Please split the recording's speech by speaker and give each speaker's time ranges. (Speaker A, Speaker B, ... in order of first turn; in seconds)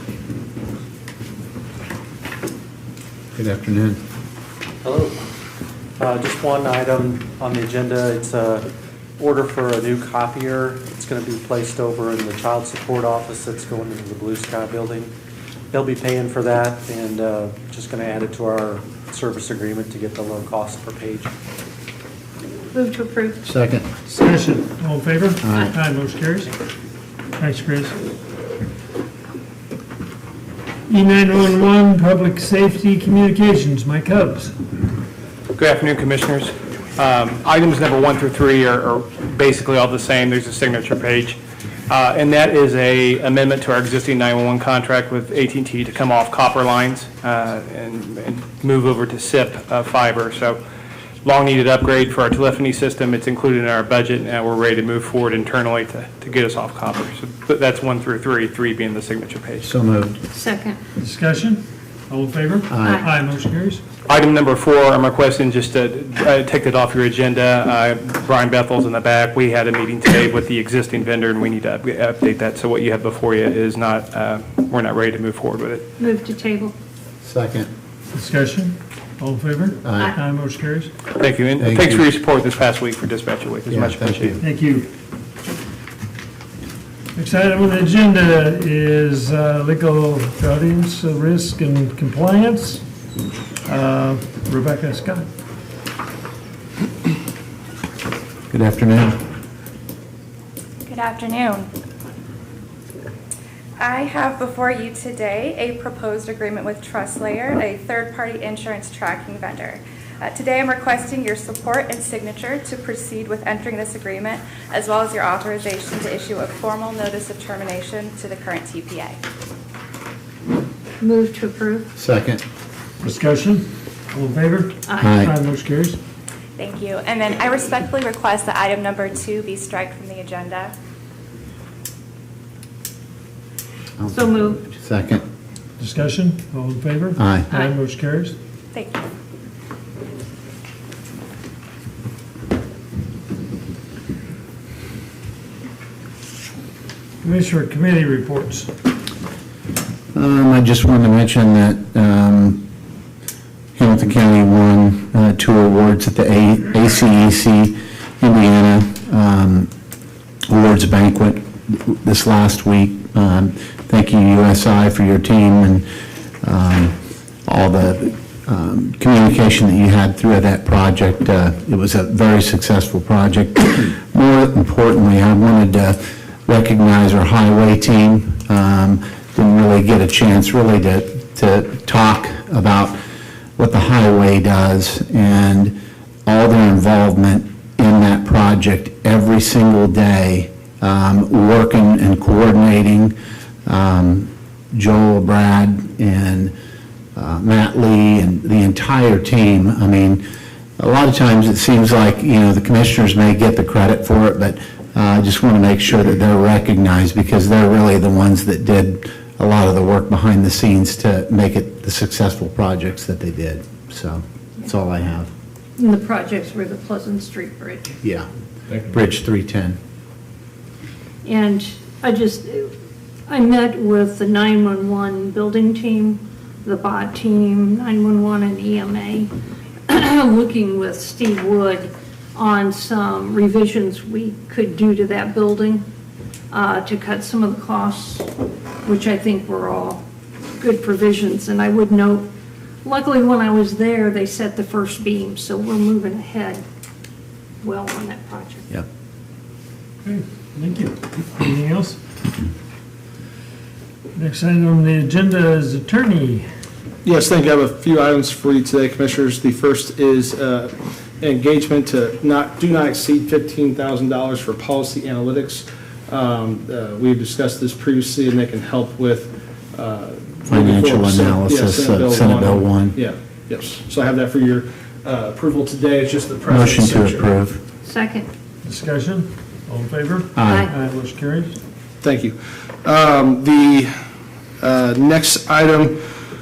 Speaker A: 3.4-4.0, 23.4-23.9, 25.4-25.7, 59.6-60.2, 62.7-63.0, 77.2-77.7, 79.8-80.1, 81.6-82.0, 83.7-84.4, 98.5-99.2, 122.0-122.4, 125.0-125.3, 134.0-135.2, 137.2-137.5, 150.2-152.7, 153.8-159.7, 160.5-165.9, 166.4-166.9, 167.5-183.0, 183.6-185.7, 186.3-193.1, 193.7-196.5, 197.2-200.2, 200.8-215.3, 218.0-218.3, 218.9-219.8, 270.5-273.0, 276.5-277.6, 280.4-280.7
Speaker B: 4.8-5.2, 6.0-15.1, 15.7-21.3
Speaker C: 22.7-23.4, 60.3-60.8, 76.0-76.7, 121.0-121.9, 124.9-125.1, 134.1-134.7, 215.8-217.9, 221.2-222.7, 223.3-229.3, 229.9-235.8, 236.5-238.3, 238.8-240.0, 240.6-242.3, 242.8-246.6, 247.6-248.7, 277.8-278.3, 280.4-280.7
Speaker D: 24.1-26.5, 27.4-28.0, 30.9-34.5, 61.0-63.8, 78.1-80.9, 84.4-84.9, 87.2-92.8, 93.7-95.3, 123.0-126.0, 135.8-138.3, 147.2-148.7, 250.0-252.0, 254.2-256.4, 278.6-281.6
Speaker E: 35.6-41.4, 41.9-50.6, 51.2-59.7, 64.1-75.8, 81.2-84.4
Speaker F: 100.9-101.7, 103.8-119.2, 126.6-130.7, 138.7-139.1
Speaker G: 257.0-277.3, 282.0-284.0, 284.6-286.0